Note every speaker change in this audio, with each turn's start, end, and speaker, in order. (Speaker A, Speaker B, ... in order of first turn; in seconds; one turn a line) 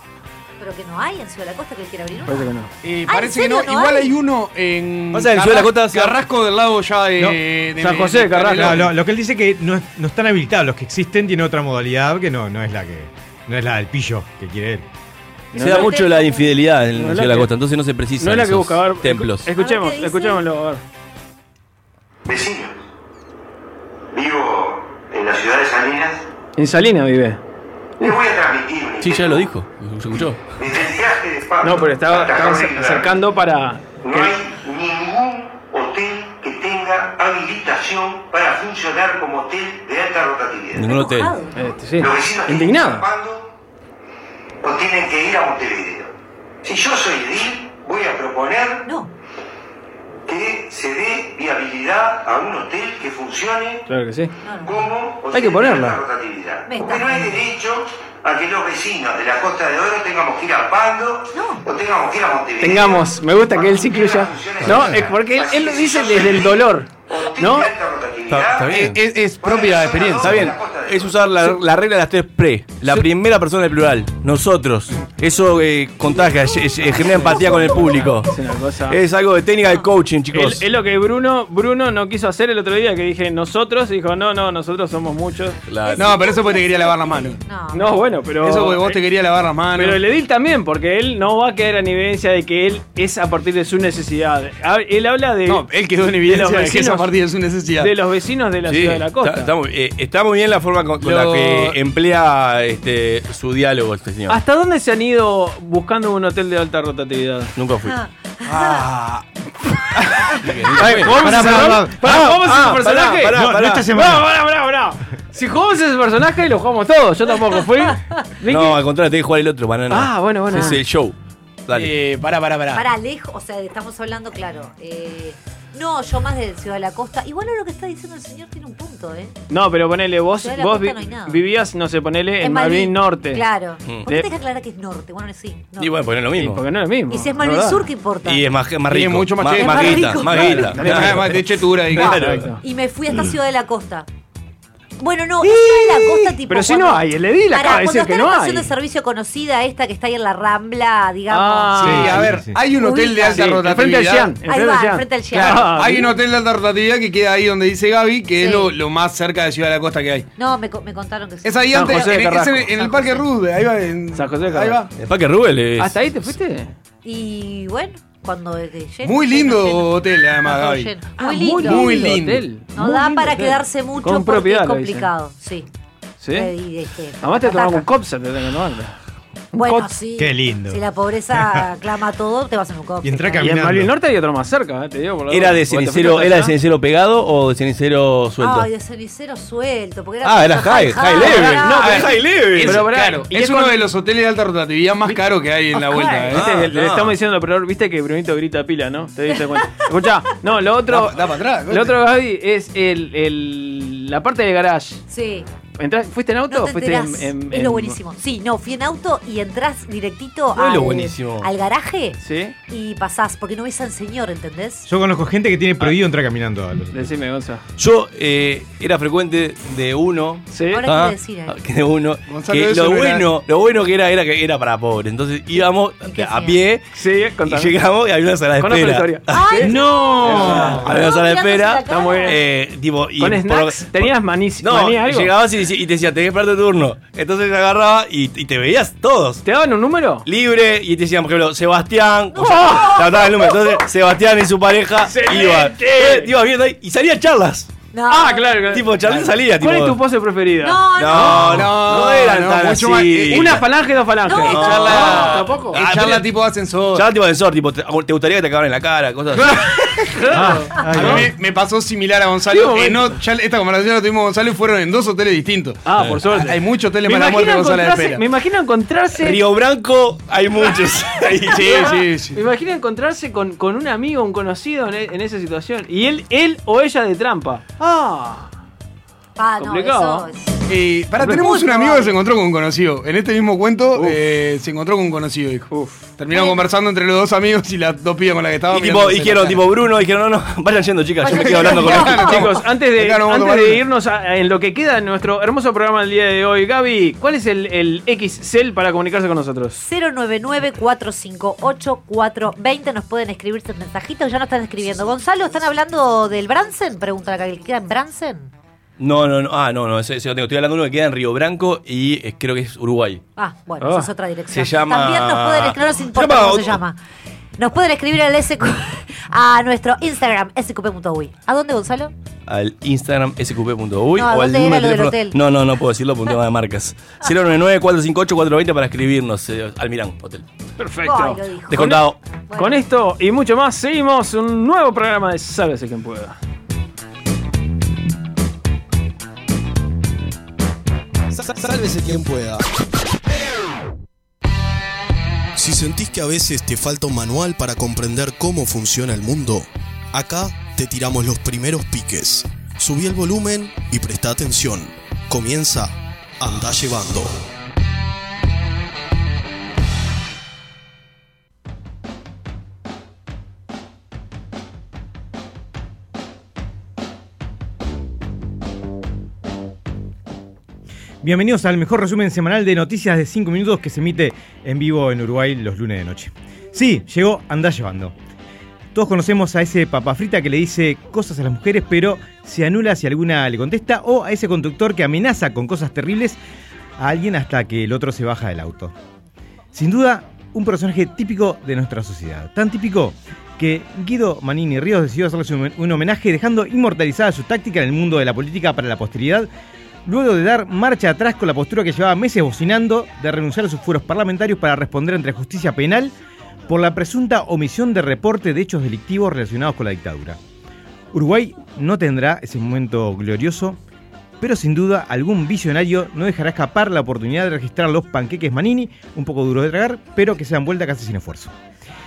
Speaker A: 0.6-2.5
Speaker B: 2.3-2.7
Speaker C: 2.8-8.9
Speaker A: 3.1-4.1
Speaker D: 5.1-6.2
Speaker B: 7.8-8.9
Speaker E: 8.6-14.9
Speaker B: 15.5-16.0
Speaker D: 15.5-19.4
Speaker A: 15.6-16.5
Speaker B: 16.9-17.5
Speaker B: 18.2-20.8
Speaker A: 19.5-20.4
Speaker F: 22.2-22.8
Speaker F: 24.1-26.2
Speaker B: 26.6-27.4
Speaker F: 28.0-29.5
Speaker D: 29.0-30.4
Speaker F: 30.6-33.1
Speaker B: 31.6-34.3
Speaker F: 34.0-40.9
Speaker D: 40.7-41.3
Speaker A: 40.8-41.8
Speaker B: 41.5-43.1
Speaker F: 42.0-43.5
Speaker F: 44.6-46.1
Speaker F: 46.6-48.8
Speaker A: 48.9-49.1
Speaker F: 50.3-53.8
Speaker B: 53.9-54.3
Speaker A: 54.4-54.8
Speaker F: 54.6-68.7
Speaker B: 55.3-56.0
Speaker A: 56.7-57.4
Speaker A: 61.3-61.6
Speaker B: 62.6-67.7
Speaker D: 64.6-65.1
Speaker D: 68.3-69.0
Speaker C: 68.6-70.5
Speaker F: 69.4-71.2
Speaker D: 70.2-78.3
Speaker A: 77.1-77.5
Speaker B: 77.1-79.0
Speaker D: 78.9-80.6
Speaker B: 80.3-85.6
Speaker D: 85.7-86.1
Speaker A: 85.9-88.1
Speaker C: 86.0-87.4
Speaker B: 87.7-89.0
Speaker C: 88.4-90.0
Speaker B: 89.8-95.6
Speaker C: 95.5-97.9
Speaker B: 96.2-97.1
Speaker B: 97.8-99.5
Speaker D: 98.6-104.4
Speaker C: 101.0-101.8
Speaker B: 104.3-107.5
Speaker D: 107.5-108.0
Speaker A: 108.4-108.8
Speaker C: 108.5-109.2
Speaker D: 110.3-113.9
Speaker B: 110.7-113.4
Speaker E: 111.1-112.1
Speaker E: 113.3-114.3
Speaker B: 113.9-118.8
Speaker D: 118.5-121.2
Speaker B: 119.9-120.8
Speaker D: 121.7-122.0
Speaker C: 121.7-122.8
Speaker A: 122.7-129.3
Speaker B: 129.5-133.4
Speaker A: 130.4-131.4
Speaker A: 132.4-135.9
Speaker D: 135.8-136.6
Speaker B: 136.4-137.8
Speaker A: 137.1-138.4
Speaker D: 138.2-142.5
Speaker C: 138.9-142.4
Speaker A: 139.5-140.9
Speaker B: 140.2-141.4
Speaker B: 141.9-142.6
Speaker A: 142.0-144.1
Speaker A: 145.0-152.2
Speaker B: 145.4-148.7
Speaker B: 151.3-152.3
Speaker E: 151.8-152.6
Speaker C: 151.8-154.4
Speaker A: 152.8-153.5
Speaker B: 153.2-156.1
Speaker A: 154.4-155.7
Speaker C: 155.4-160.3
Speaker A: 158.4-158.7
Speaker A: 160.4-162.2
Speaker C: 161.4-164.9
Speaker B: 161.7-162.7
Speaker A: 162.7-163.3
Speaker B: 164.1-164.8
Speaker D: 165.0-166.0
Speaker B: 165.8-166.7
Speaker A: 167.0-172.2
Speaker C: 169.0-170.9
Speaker B: 171.2-175.1
Speaker C: 171.6-172.4
Speaker A: 172.7-175.7
Speaker B: 176.2-176.5
Speaker A: 176.3-177.8
Speaker B: 177.2-178.9
Speaker B: 179.5-179.9
Speaker A: 179.5-183.4
Speaker E: 180.2-181.7
Speaker E: 183.0-183.9
Speaker B: 183.4-186.5
Speaker D: 185.3-188.7
Speaker A: 188.4-192.1
Speaker D: 190.2-192.9
Speaker B: 191.2-193.8
Speaker C: 191.9-196.4
Speaker A: 195.8-196.3
Speaker B: 196.2-201.1
Speaker D: 196.3-197.1
Speaker C: 200.9-202.0
Speaker B: 201.7-205.0
Speaker A: 205.1-205.5
Speaker B: 205.8-208.0
Speaker A: 206.5-214.9
Speaker D: 210.6-211.5
Speaker B: 210.8-211.0
Speaker B: 212.2-212.5
Speaker E: 214.8-217.1
Speaker B: 216.9-217.6
Speaker D: 217.8-226.8
Speaker B: 220.5-220.8
Speaker A: 220.7-221.5
Speaker C: 222.3-223.3
Speaker A: 226.0-226.6
Speaker B: 226.9-227.7
Speaker D: 227.4-239.4
Speaker B: 228.6-229.7
Speaker A: 229.3-232.4
Speaker E: 229.8-230.8
Speaker B: 230.2-230.8
Speaker B: 231.9-232.4
Speaker B: 233.2-235.3
Speaker B: 239.4-240.2
Speaker D: 240.2-247.7
Speaker A: 242.3-243.5
Speaker B: 242.4-243.0
Speaker B: 245.0-246.3
Speaker A: 247.9-248.5
Speaker B: 248.1-251.6
Speaker D: 248.7-250.0
Speaker A: 250.6-251.6
Speaker D: 250.9-253.6
Speaker C: 251.3-253.6
Speaker B: 253.3-255.8
Speaker A: 254.2-254.6
Speaker D: 254.4-256.3
Speaker C: 254.5-257.0
Speaker D: 256.9-259.9
Speaker B: 260.2-261.2
Speaker E: 260.3-261.3
Speaker C: 261.0-268.2
Speaker B: 262.5-263.1
Speaker B: 265.8-269.4
Speaker D: 266.0-266.2
Speaker D: 269.2-271.8
Speaker C: 271.5-272.4
Speaker B: 271.6-278.5
Speaker A: 279.4-280.6
Speaker B: 279.6-280.3
Speaker C: 280.7-289.6
Speaker B: 281.2-281.5
Speaker A: 281.2-282.1
Speaker B: 285.7-286.1
Speaker A: 286.3-286.6
Speaker D: 288.7-292.4
Speaker A: 291.2-292.6
Speaker C: 291.4-293.8
Speaker B: 291.7-299.8
Speaker A: 299.8-308.5
Speaker D: 309.0-313.2
Speaker A: 313.4-317.0
Speaker B: 313.8-314.1
Speaker D: 314.5-316.8
Speaker A: 317.6-322.1
Speaker D: 322.5-330.4
Speaker A: 324.2-325.4
Speaker B: 330.8-332.0
Speaker A: 331.0-331.9
Speaker D: 331.7-332.1
Speaker A: 332.5-332.8
Speaker B: 332.6-336.4
Speaker G: 341.8-342.6
Speaker G: 345.6-357.4
Speaker E: 371.2-378.1
Speaker E: 378.9-386.4
Speaker E: 387.0-388.9
Speaker E: 389.7-399.5
Speaker E: 400.0-406.1
Speaker E: 406.7-410.4
Speaker E: 411.1-413.8
Speaker E: 414.4-421.5